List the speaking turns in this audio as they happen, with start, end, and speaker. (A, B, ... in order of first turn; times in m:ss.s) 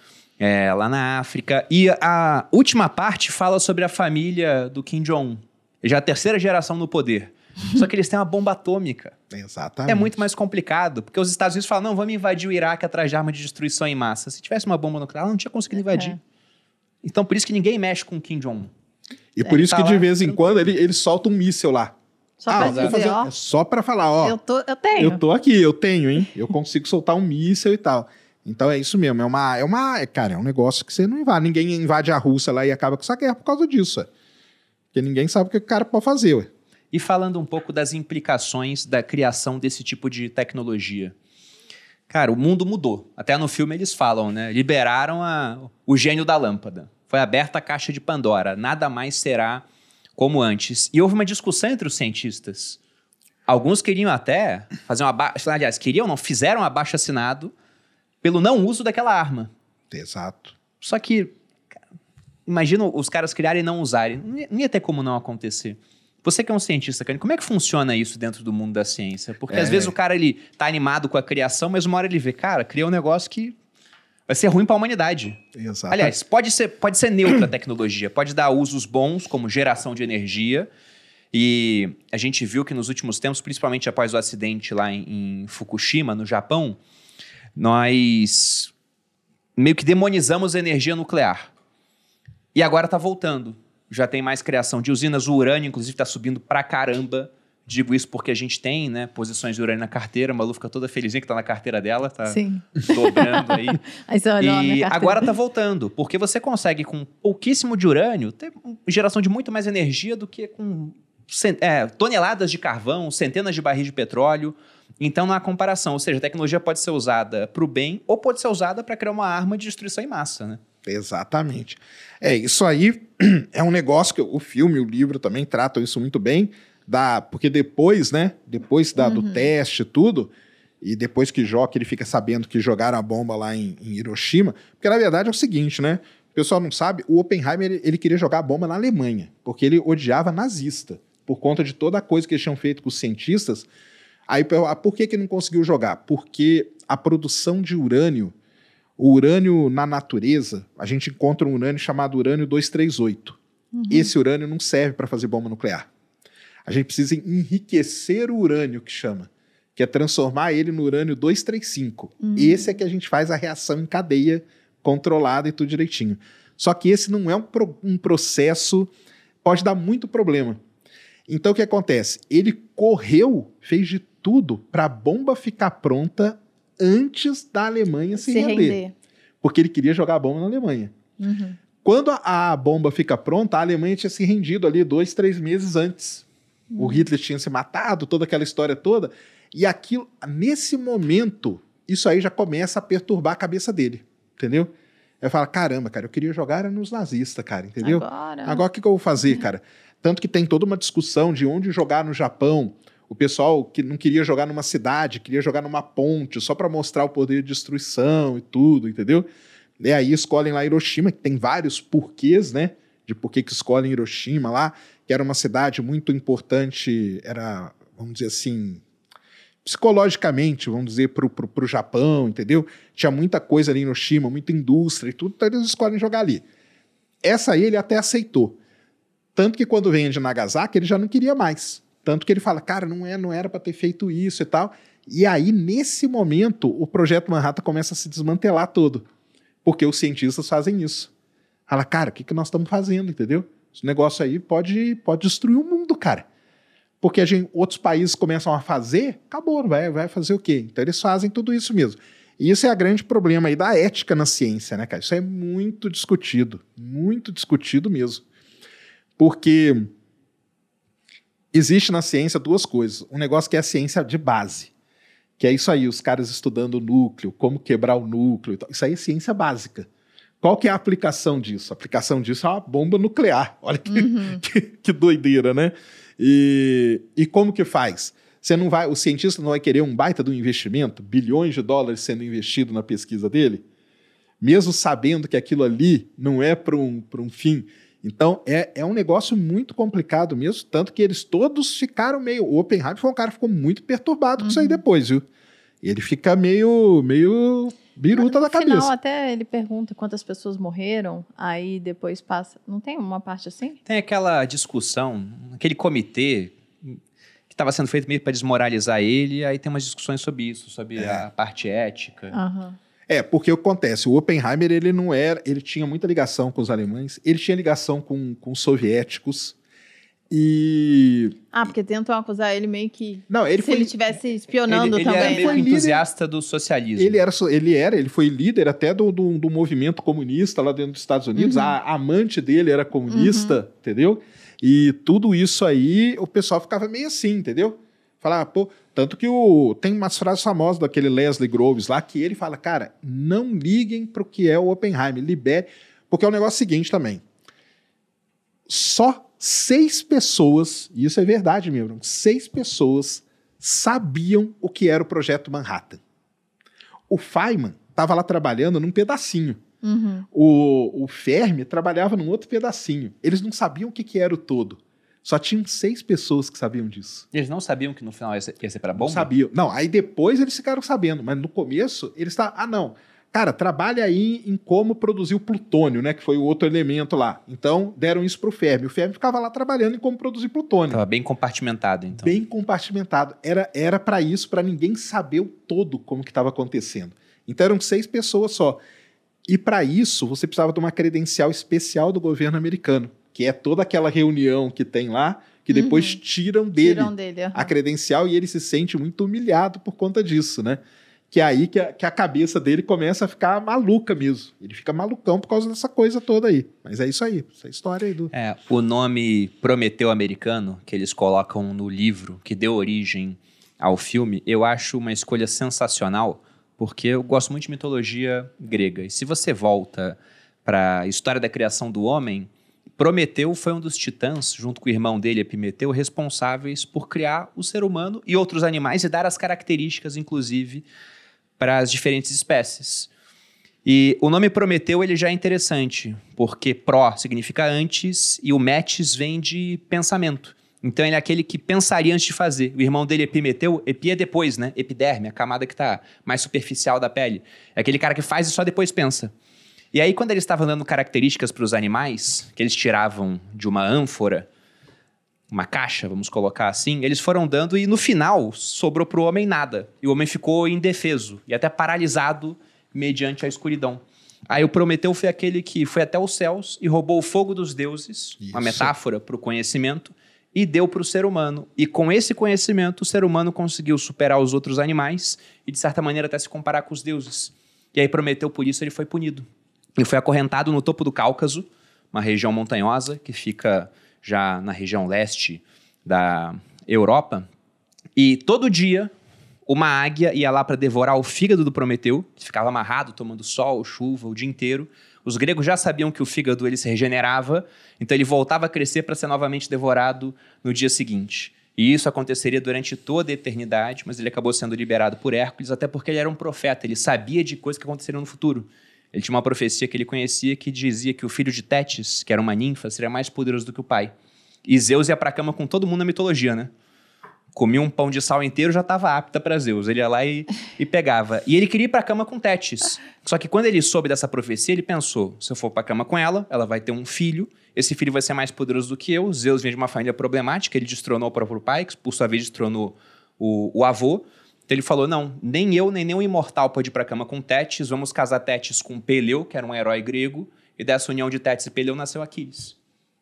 0:00.4-0:09.2 A
0:09.3-0:10.1 B
0:09.9-0:16.2 A
0:15.9-0:16.2 C
0:17.0-0:18.7 A
0:19.4-0:22.0 B
0:19.4-0:20.4 A
0:22.4-0:23.3 C
0:22.5-0:24.4 B
0:22.6-0:23.0 A
0:24.2-0:25.2 C
0:25.0-0:34.1 B
0:34.9-0:36.5 B
0:36.9-0:41.1 A
0:42.1-0:49.7 A
0:50.2-0:52.8 A
0:53.5-0:57.5 A
0:58.2-0:59.5 A
0:59.9-1:00.6 B
1:00.8-1:01.3 A
1:02.5-1:13.6 A
1:09.5-1:09.9 B
1:14.3-1:20.7 A
1:15.5-1:16.2 B
1:21.3-1:26.8 A
1:27.6-1:28.7 A
1:29.6-1:31.5 A
1:32.6-1:43.8 A
1:42.3-1:45.3 C
1:44.4-2:00.6 A
2:00.8-2:23.7 B
2:09.0-2:09.5 C
2:24.3-2:28.3 B
2:29.0-2:33.4 B
2:33.7-2:34.1 C
2:33.9-2:35.9 B
2:36.7-2:48.9 B
2:42.2-2:42.7 C
2:49.4-2:50.6 B
2:51.3-2:58.8 B
2:58.2-2:58.9 C
2:59.4-3:00.9 B
3:01.2-3:01.6 C
3:01.8-3:06.3 B
3:06.7-3:07.1 C
3:06.8-3:14.7 B
3:15.2-3:29.3 B
3:17.8-3:18.6 C
3:29.8-3:38.8 B
3:39.6-3:46.4 B
3:47.2-3:48.6 B
3:49.4-3:59.1 B
3:59.6-4:01.1 B
4:01.7-4:06.3 B
4:07.0-4:18.2 B
4:19.2-4:19.9 B
4:21.5-4:24.7 B
4:25.4-4:29.9 B
4:30.4-4:43.6 B
4:33.9-4:34.4 C
4:44.4-4:55.2 B
4:54.4-4:54.8 C
4:55.8-4:58.9 B
4:58.1-5:03.8 C
5:03.8-5:07.0 A
5:07.5-5:12.4 A
5:11.0-5:11.3 B
5:12.3-5:12.8 C
5:13.1-5:19.6 B
5:20.3-5:21.4 B
5:21.5-5:25.6 C
5:23.3-5:24.0 B
5:24.7-5:27.2 A
5:25.0-5:26.0 B
5:27.0-5:47.2 B
5:31.4-5:31.8 C
5:33.1-5:33.6 C
5:48.7-5:56.0 B
5:57.1-5:59.6 B
5:59.8-6:00.3 C
6:00.3-6:07.3 B
6:07.3-6:09.3 A
6:09.0-6:21.0 B
6:20.9-6:22.4 A
6:22.2-6:28.8 B
6:29.5-6:40.8 B
6:35.7-6:36.2 C
6:36.8-6:37.7 C
6:41.3-6:48.3 B
6:48.3-7:10.9 A
7:11.6-7:13.1 A
7:13.8-7:29.3 A
7:29.9-7:34.5 A
7:35.5-8:07.5 A
7:48.4-7:48.9 B
8:08.2-8:09.1 A
8:09.7-8:34.1 A
8:34.6-8:36.7 A
8:37.6-9:02.8 A